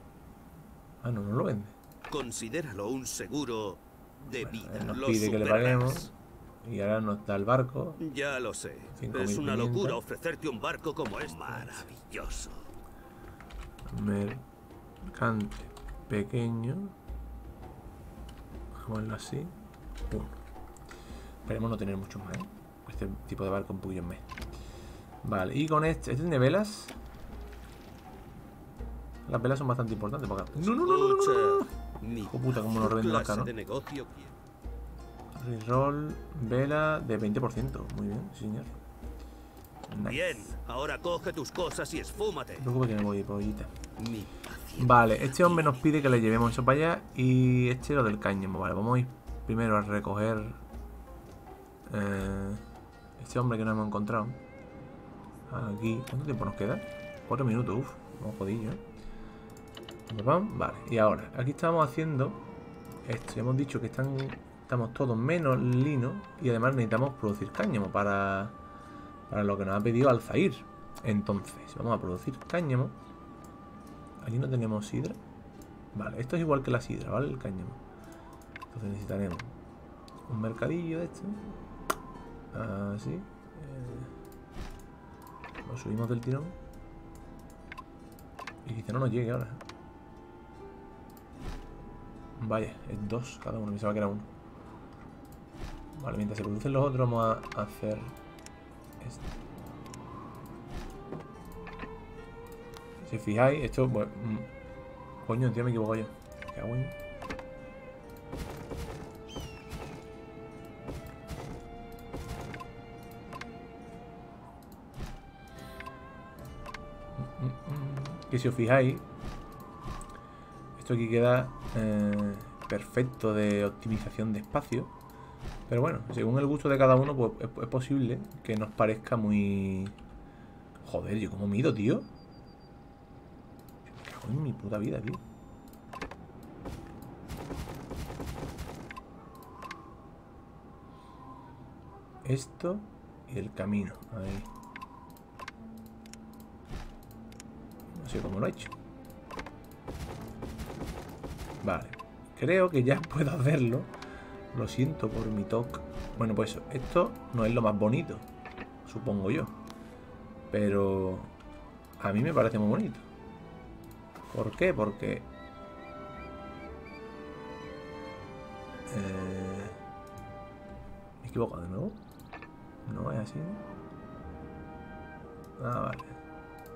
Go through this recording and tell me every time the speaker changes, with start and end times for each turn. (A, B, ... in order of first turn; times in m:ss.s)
0:01.0-0:01.8 A
0:02.1-0:06.1 B
0:04.4-0:06.1 A
0:06.6-0:08.0 A
0:08.0-0:12.6 B
0:08.9-0:10.0 A
0:11.3-0:11.9 A
0:13.9-0:14.4 A
0:15.1-0:16.9 A
0:18.8-0:19.5 A
0:20.1-0:20.4 A
0:21.4-0:24.2 A
0:25.2-0:27.0 A
0:29.2-0:33.5 A
0:30.6-0:34.3 B
0:35.4-0:38.8 A
0:39.9-0:40.5 A
0:40.0-0:42.7 B
0:42.6-0:43.7 A
0:44.0-0:46.0 B
0:44.8-0:50.6 A
0:51.9-0:52.6 A
0:53.2-0:54.4 A
0:55.5-0:58.8 A
1:00.1-1:02.4 A
1:03.0-1:08.6 A
1:09.3-1:12.9 A
1:14.2-1:15.2 A
1:15.9-1:17.8 A
1:18.7-1:19.5 A
1:20.3-1:21.5 A
1:22.5-1:24.1 A
1:25.6-1:26.5 A
1:28.6-1:29.6 A
1:32.4-1:34.3 A
1:36.0-1:38.1 A
1:39.0-1:39.3 A
1:43.0-1:44.5 A
1:45.2-1:46.9 A
1:57.2-1:59.0 A
2:00.8-2:04.9 A
2:05.7-2:10.0 A
2:10.8-2:12.1 A
2:13.9-2:15.2 A
2:22.2-2:24.5 A
2:28.0-2:28.7 A
2:31.6-2:33.9 A
2:34.5-2:38.2 A
2:38.8-2:39.5 A
2:40.5-2:41.3 A
2:42.0-2:43.0 A
2:44.3-2:45.3 A
2:48.9-2:49.8 A
2:51.2-2:52.0 A
2:52.8-2:53.6 A
2:55.6-2:56.2 A